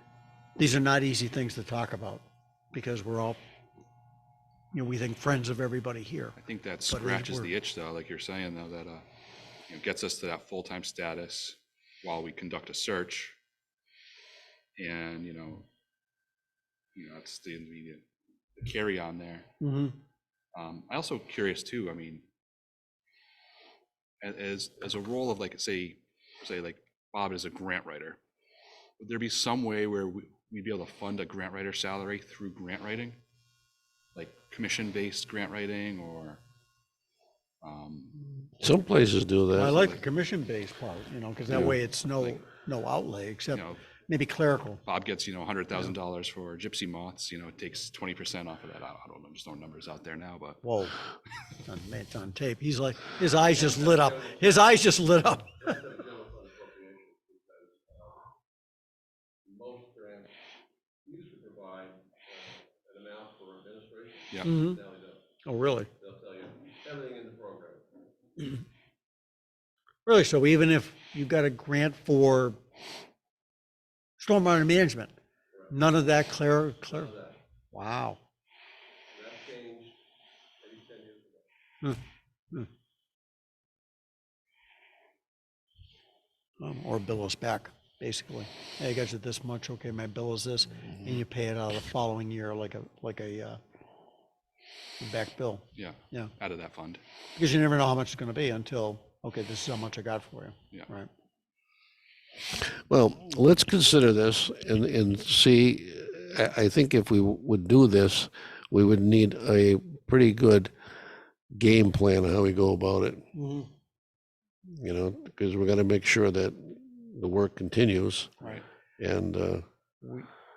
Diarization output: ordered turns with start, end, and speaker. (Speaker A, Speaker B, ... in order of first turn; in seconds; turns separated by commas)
Speaker A: 0.6-3.4, Speaker A: 4.7-6.3, Speaker B: 6.4-9.0, Speaker A: 6.9-7.5, Speaker B: 9.7-13.3, Speaker B: 14.8-15.6, Speaker B: 16.9-18.0, Speaker B: 18.6-19.5, Speaker A: 19.6-19.9, Speaker B: 20.5-22.2, Speaker B: 24.2-28.2, Speaker B: 29.0-33.2, Speaker B: 34.1-36.4, Speaker B: 37.6-38.2, Speaker C: 38.6-39.9, Speaker A: 39.5-44.8, Speaker B: 41.5-42.4, Speaker B: 43.5-43.8, Speaker B: 44.9-50.6, Speaker A: 50.6-50.9, Speaker A: 51.6-55.8, Speaker D: 53.4-54.8, Speaker D: 55.6-58.3, Speaker D: 59.5-60.3, Speaker D: 61.0-65.2, Speaker A: 64.4-64.8, Speaker A: 65.4-65.9, Speaker D: 66.0-67.9, Speaker A: 70.0-72.6, Speaker A: 74.2-75.1, Speaker A: 75.7-77.1, Speaker D: 76.9-77.4, Speaker A: 77.7-78.2, Speaker D: 79.1-80.0, Speaker D: 80.6-81.5, Speaker A: 86.6-93.6, Speaker A: 95.0-96.3, Speaker B: 95.8-97.0, Speaker A: 97.3-101.1, Speaker C: 102.5-110.7, Speaker C: 111.5-113.2, Speaker A: 113.3-113.7, Speaker C: 114.7-118.4, Speaker C: 119.0-119.6, Speaker A: 120.0-120.3